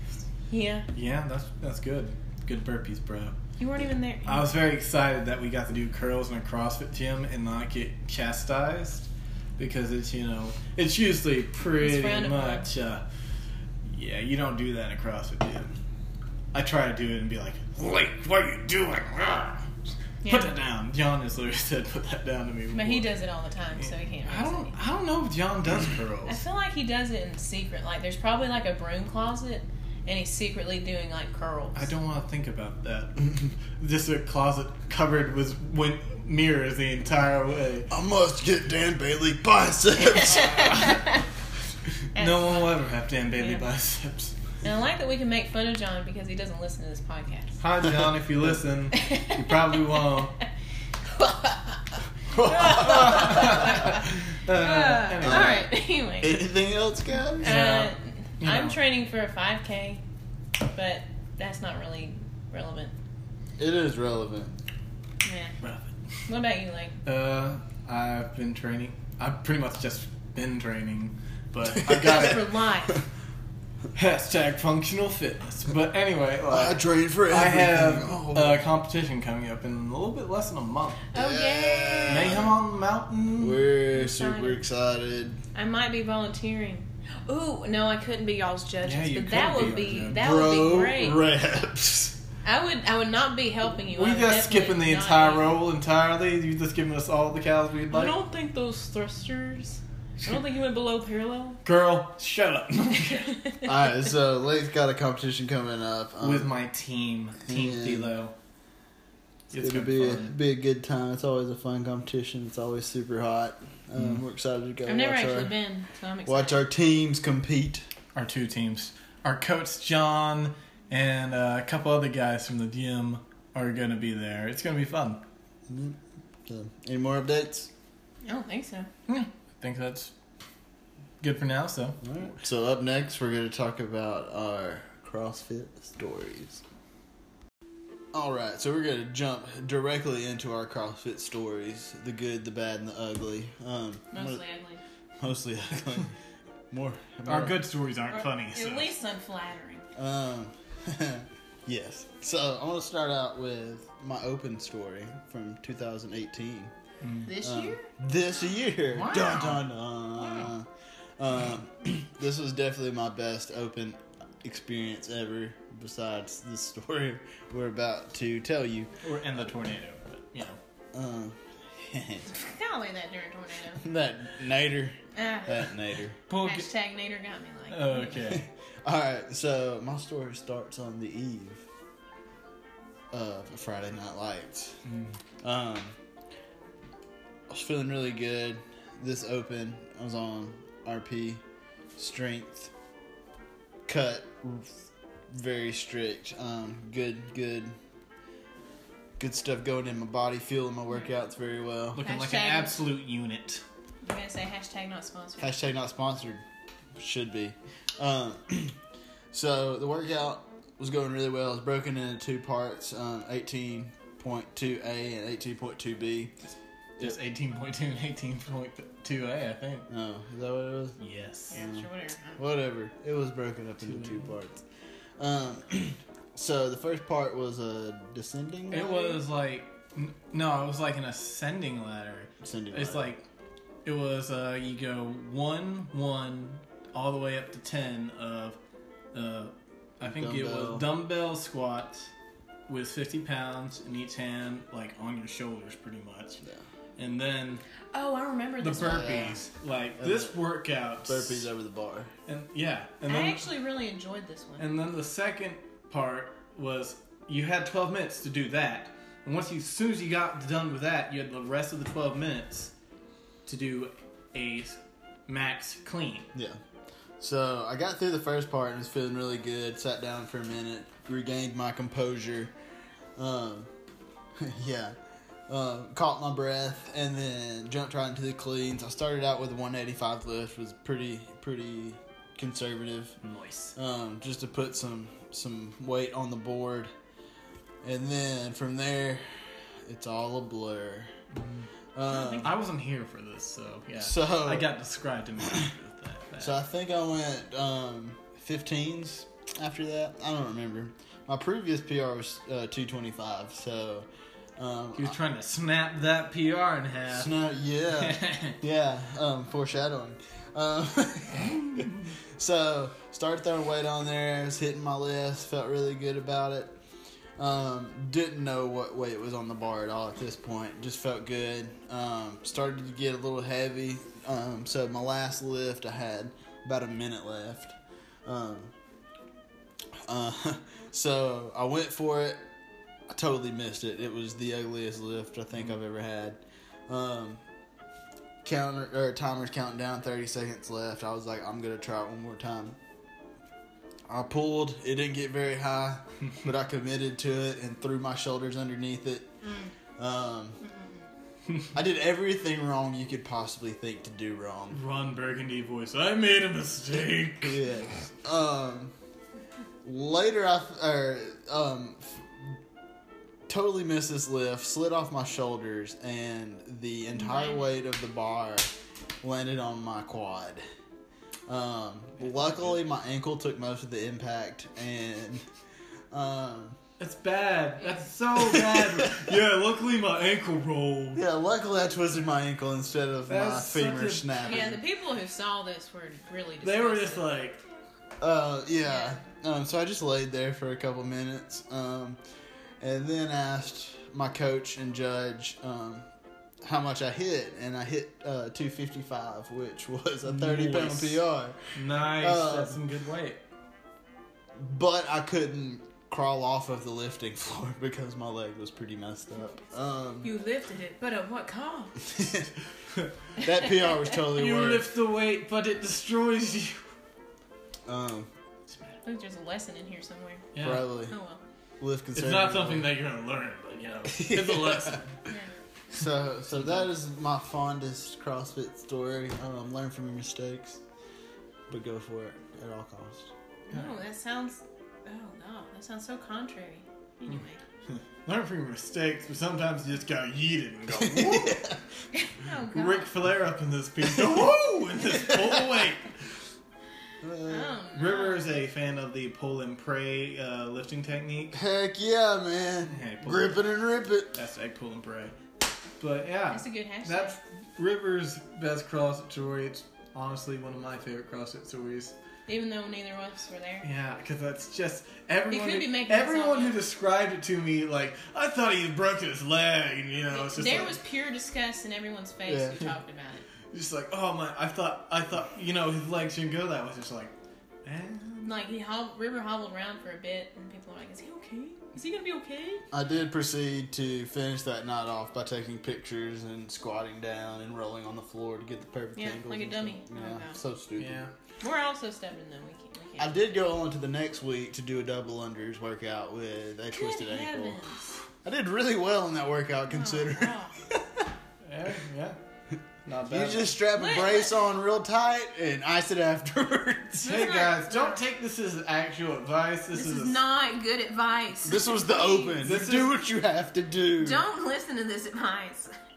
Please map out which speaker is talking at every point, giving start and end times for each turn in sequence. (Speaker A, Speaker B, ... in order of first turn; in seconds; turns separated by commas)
Speaker A: 0.5-0.9, Speaker B: 0.9-3.3, Speaker A: 3.6-4.5, Speaker B: 4.3-13.0, Speaker A: 11.8-12.7, Speaker B: 13.8-15.7, Speaker B: 16.5-19.7, Speaker A: 20.2-20.5, Speaker B: 20.2-23.1, Speaker A: 22.7-24.8, Speaker B: 23.7-26.4, Speaker A: 26.3-31.9, Speaker B: 31.7-37.9, Speaker C: 37.9-40.8, Speaker A: 40.0-41.2, Speaker B: 40.5-41.0, Speaker A: 42.1-42.7, Speaker B: 42.1-44.3, Speaker A: 43.4-43.7, Speaker A: 44.6-47.6, Speaker B: 47.6-50.4, Speaker A: 48.9-49.5, Speaker A: 51.1-51.8, Speaker C: 52.3-53.6, Speaker A: 52.4-56.5, Speaker B: 52.6-55.6, Speaker C: 55.2-55.7, Speaker C: 56.2-57.9, Speaker A: 57.4-60.0, Speaker B: 57.4-58.8, Speaker A: 60.6-62.9, Speaker C: 63.6-64.6, Speaker A: 65.2-65.6, Speaker B: 65.6-65.9, Speaker A: 66.3-67.0, Speaker B: 67.0-72.5, Speaker A: 72.0-73.0, Speaker B: 73.9-81.0, Speaker C: 76.5-78.7, Speaker A: 81.1-82.5, Speaker C: 81.1-82.5, Speaker B: 82.1-83.6, Speaker C: 83.4-85.4, Speaker A: 83.9-84.6, Speaker A: 85.5-91.2, Speaker B: 88.8-90.2, Speaker C: 90.2-92.1, Speaker A: 92.4-95.5, Speaker B: 93.9-98.2, Speaker A: 97.9-101.6, Speaker B: 101.6-103.4, Speaker A: 103.3-103.7, Speaker C: 103.6-106.5, Speaker B: 106.2-108.3, Speaker C: 107.4-108.1, Speaker B: 109.5-110.3, Speaker C: 109.6-115.5, Speaker B: 114.0-114.2, Speaker A: 114.8-116.6, Speaker C: 116.2-117.8, Speaker B: 118.1-125.2, Speaker C: 125.7-127.7, Speaker A: 128.2-128.9, Speaker B: 129.1-130.1, Speaker B: 131.2-132.3, Speaker C: 132.0-136.6, Speaker C: 138.1-144.4, Speaker A: 144.1-144.8, Speaker C: 145.2-146.1, Speaker C: 146.7-147.6, Speaker B: 147.2-148.9, Speaker A: 148.1-149.8, Speaker C: 149.9-156.7, Speaker B: 157.0-157.3, Speaker A: 157.2-157.9, Speaker C: 157.4-160.7, Speaker A: 158.9-159.6, Speaker B: 159.1-159.6, Speaker A: 160.2-160.5, Speaker C: 161.2-168.9, Speaker B: 169.0-170.6, Speaker C: 170.9-172.3, Speaker A: 172.3-173.8, Speaker C: 173.8-176.2, Speaker A: 175.1-175.6, Speaker B: 176.3-176.7, Speaker A: 176.4-178.2, Speaker B: 177.7-178.4, Speaker C: 178.2-181.7, Speaker C: 183.1-184.8, Speaker B: 184.9-185.1, Speaker C: 185.4-185.9, Speaker C: 187.5-191.4, Speaker C: 191.9-192.7, Speaker C: 193.8-197.7, Speaker C: 199.2-202.0, Speaker B: 201.9-203.6, Speaker A: 202.0-202.8, Speaker A: 204.0-205.6, Speaker C: 205.4-206.4, Speaker C: 207.0-208.8, Speaker C: 209.3-216.3, Speaker B: 217.0-219.9, Speaker C: 219.9-221.0, Speaker B: 221.0-221.5, Speaker A: 221.5-222.4, Speaker C: 221.5-224.6, Speaker B: 223.8-224.3, Speaker C: 225.2-229.0, Speaker B: 228.7-233.2, Speaker A: 228.7-229.2, Speaker C: 232.4-233.1, Speaker B: 233.8-238.6, Speaker B: 239.1-242.1, Speaker C: 240.0-240.9, Speaker B: 242.7-246.4, Speaker B: 247.0-247.6, Speaker A: 247.9-249.4, Speaker B: 248.6-251.4, Speaker C: 248.8-249.4, Speaker C: 250.0-250.3, Speaker C: 251.0-252.1, Speaker B: 252.3-253.4, Speaker A: 253.1-254.7, Speaker B: 254.6-262.7, Speaker B: 263.4-266.3, Speaker C: 266.3-266.6, Speaker C: 267.2-272.5, Speaker C: 273.1-273.7, Speaker C: 274.4-274.9, Speaker C: 275.5-283.2, Speaker B: 283.2-283.8, Speaker C: 283.8-286.9, Speaker C: 287.8-289.2, Speaker C: 289.8-291.1, Speaker B: 291.3-291.7, Speaker C: 291.9-292.5, Speaker A: 292.1-292.5, Speaker B: 292.4-296.6, Speaker C: 294.0-294.7, Speaker C: 296.4-305.1, Speaker B: 304.9-307.3, Speaker C: 307.1-316.8, Speaker B: 307.9-308.6, Speaker C: 317.4-328.7, Speaker C: 330.1-332.4, Speaker C: 333.1-337.4, Speaker C: 338.4-342.8, Speaker C: 344.1-349.3, Speaker C: 350.0-350.6, Speaker A: 350.6-350.9, Speaker C: 351.7-354.8, Speaker B: 354.7-357.6, Speaker C: 357.4-358.9, Speaker C: 359.8-362.6, Speaker C: 363.5-368.7, Speaker A: 367.1-367.6, Speaker C: 369.2-370.6, Speaker C: 371.5-375.4, Speaker B: 372.2-372.8, Speaker C: 376.1-376.8, Speaker B: 377.0-381.2, Speaker A: 377.8-378.0, Speaker C: 378.4-379.3, Speaker C: 381.1-384.8, Speaker B: 383.3-384.7, Speaker A: 384.4-387.2, Speaker B: 386.6-387.6, Speaker C: 388.2-392.2, Speaker A: 388.9-389.2, Speaker C: 392.8-396.1, Speaker C: 396.6-402.8, Speaker B: 400.2-401.2, Speaker B: 401.8-403.4, Speaker C: 404.6-410.3, Speaker A: 410.2-412.0, Speaker C: 412.0-412.5, Speaker C: 413.4-414.9, Speaker B: 414.2-416.8, Speaker C: 417.9-418.3, Speaker A: 419.0-420.5, Speaker B: 420.5-420.9, Speaker C: 420.6-421.1, Speaker A: 421.1-421.4, Speaker C: 421.8-422.9, Speaker B: 422.1-425.2, Speaker C: 424.1-425.0, Speaker C: 425.9-430.8, Speaker C: 431.7-433.3, Speaker A: 433.7-437.6, Speaker B: 437.9-441.6, Speaker C: 440.9-441.8, Speaker A: 442.1-443.1, Speaker B: 442.7-446.1, Speaker C: 445.1-445.8, Speaker C: 447.2-447.7, Speaker A: 447.5-448.5, Speaker B: 447.9-451.6, Speaker C: 451.5-454.4, Speaker B: 452.9-453.6, Speaker B: 454.4-455.4, Speaker B: 456.0-462.1, Speaker A: 456.5-457.4, Speaker A: 462.5-463.9, Speaker B: 463.8-471.0, Speaker A: 465.5-466.8, Speaker A: 470.3-473.4, Speaker C: 472.5-472.8, Speaker B: 473.7-478.5, Speaker A: 478.4-482.9, Speaker C: 482.9-491.2, Speaker A: 489.1-490.6, Speaker B: 491.0-491.3, Speaker A: 491.6-493.4, Speaker C: 493.2-497.8, Speaker A: 496.9-498.1, Speaker C: 498.4-501.0, Speaker A: 499.9-500.8, Speaker B: 501.6-502.4, Speaker B: 503.0-503.8, Speaker C: 503.2-507.5, Speaker A: 503.9-504.6, Speaker A: 507.2-508.2, Speaker B: 507.2-510.4, Speaker A: 509.9-512.7, Speaker C: 511.6-514.4, Speaker B: 512.6-513.2, Speaker A: 514.2-515.9